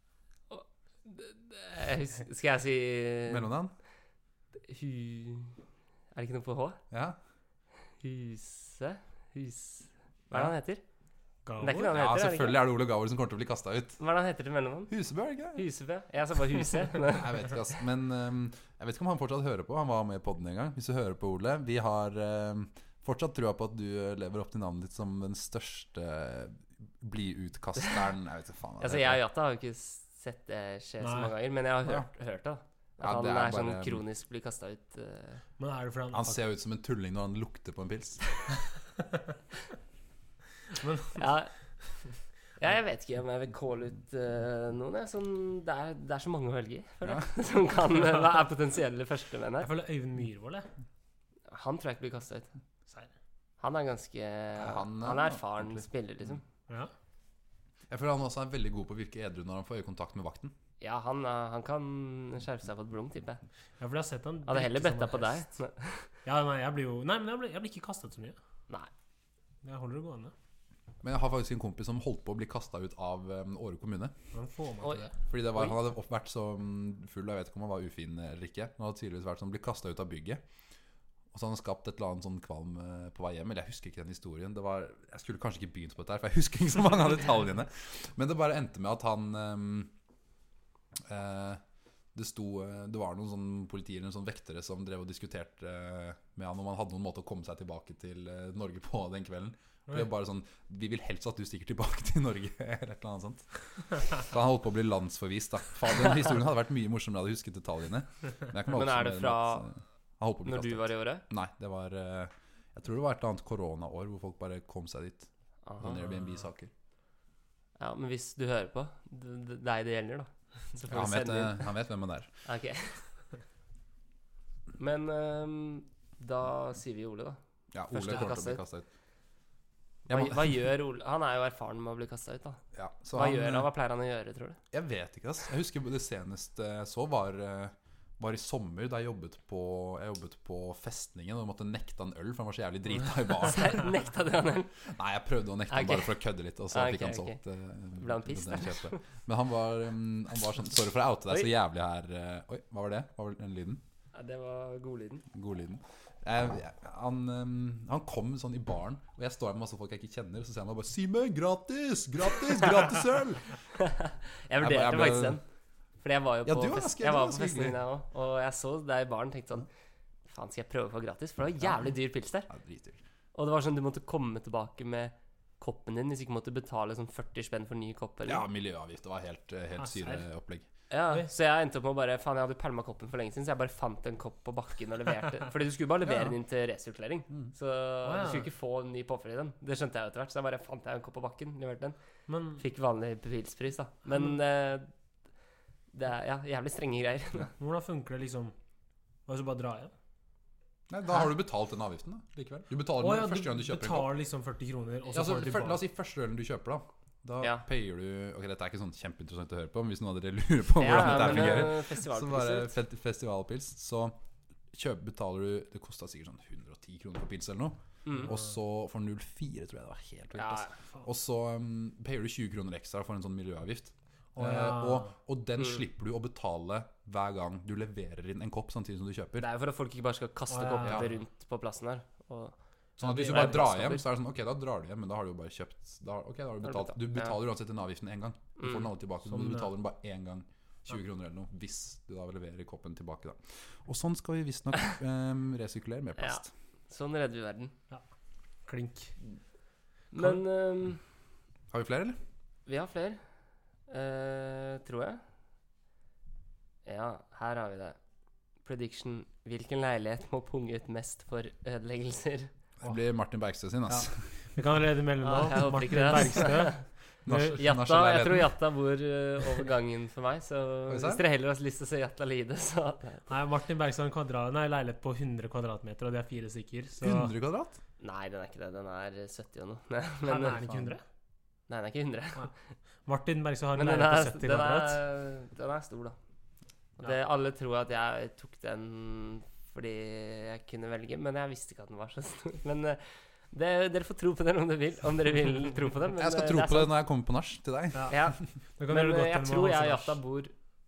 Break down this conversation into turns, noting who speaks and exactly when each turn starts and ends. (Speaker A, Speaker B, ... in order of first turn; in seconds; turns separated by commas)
Speaker A: 0.5-3.5, Speaker B: 3.3-3.7, Speaker A: 4.6-5.6, Speaker A: 6.1-6.8, Speaker B: 6.9-7.2, Speaker A: 8.0-10.8, Speaker C: 11.4-11.9, Speaker A: 11.6-12.6, Speaker B: 11.9-14.0, Speaker A: 14.0-14.9, Speaker B: 14.9-15.6, Speaker A: 15.5-17.5, Speaker B: 17.1-29.2, Speaker A: 28.8-35.4, Speaker C: 31.0-31.3, Speaker B: 33.0-34.0, Speaker C: 35.6-36.4, Speaker B: 36.1-38.2, Speaker C: 40.7-41.2, Speaker A: 41.1-41.5, Speaker A: 42.6-49.7, Speaker C: 49.6-50.7, Speaker A: 51.5-52.5, Speaker A: 53.6-56.4, Speaker B: 54.6-55.9, Speaker B: 57.9-60.5, Speaker A: 60.8-63.4, Speaker C: 63.8-65.5, Speaker A: 64.5-66.1, Speaker C: 66.2-68.4, Speaker C: 69.6-70.3, Speaker B: 71.0-74.1, Speaker C: 74.3-75.1, Speaker A: 74.8-75.7, Speaker B: 75.3-80.4, Speaker B: 81.3-89.9, Speaker B: 91.0-91.6, Speaker B: 92.1-115.3, Speaker A: 108.7-109.7, Speaker A: 110.4-111.2, Speaker A: 115.6-116.1, Speaker B: 115.8-116.7, Speaker A: 117.8-121.7, Speaker B: 120.9-122.3, Speaker A: 122.4-123.0, Speaker A: 124.8-128.6, Speaker B: 127.7-128.9, Speaker B: 130.1-130.6, Speaker A: 130.1-132.6, Speaker B: 132.7-133.7, Speaker A: 133.1-134.6, Speaker B: 134.7-143.8, Speaker A: 143.5-144.7, Speaker B: 144.8-153.8, Speaker A: 145.7-146.2, Speaker A: 146.7-147.4, Speaker A: 148.0-149.0, Speaker A: 154.1-155.2, Speaker B: 155.3-163.6, Speaker A: 163.7-165.4, Speaker B: 164.6-165.4, Speaker A: 166.0-169.7, Speaker B: 166.4-167.8, Speaker A: 170.3-172.5, Speaker B: 172.5-173.0, Speaker A: 173.3-178.4, Speaker B: 178.2-180.7, Speaker C: 179.8-180.2, Speaker A: 180.9-191.9, Speaker B: 186.1-186.3, Speaker C: 188.0-188.5, Speaker C: 192.3-192.6, Speaker A: 192.6-194.9, Speaker A: 195.9-197.5, Speaker C: 197.6-198.5, Speaker C: 199.3-199.9, Speaker B: 200.9-204.1, Speaker C: 203.0-205.8, Speaker B: 205.1-214.2, Speaker A: 210.8-212.7, Speaker B: 214.7-229.5, Speaker A: 218.0-218.3, Speaker A: 220.3-220.7, Speaker C: 224.3-225.1, Speaker A: 229.4-232.5, Speaker C: 230.5-231.1, Speaker B: 233.0-246.5, Speaker C: 233.0-233.6, Speaker A: 233.1-234.0, Speaker A: 236.6-237.3, Speaker A: 238.6-238.9, Speaker C: 239.3-239.7, Speaker A: 246.2-247.7, Speaker C: 248.7-249.2, Speaker A: 250.1-251.0, Speaker B: 251.7-252.2, Speaker A: 252.7-253.2, Speaker A: 253.9-255.2, Speaker A: 256.8-258.0, Speaker A: 258.6-262.5, Speaker B: 262.8-264.3, Speaker C: 263.9-267.6, Speaker A: 265.2-266.8, Speaker B: 267.2-268.5, Speaker A: 267.5-273.2, Speaker B: 270.9-271.2, Speaker C: 273.3-277.3, Speaker B: 277.0-277.8, Speaker A: 278.0-280.7, Speaker C: 280.2-281.0, Speaker A: 281.7-282.5, Speaker C: 283.1-285.0, Speaker A: 283.8-286.1, Speaker A: 287.0-296.9, Speaker B: 296.1-298.2, Speaker C: 297.9-298.2, Speaker A: 298.1-300.5, Speaker C: 298.8-300.2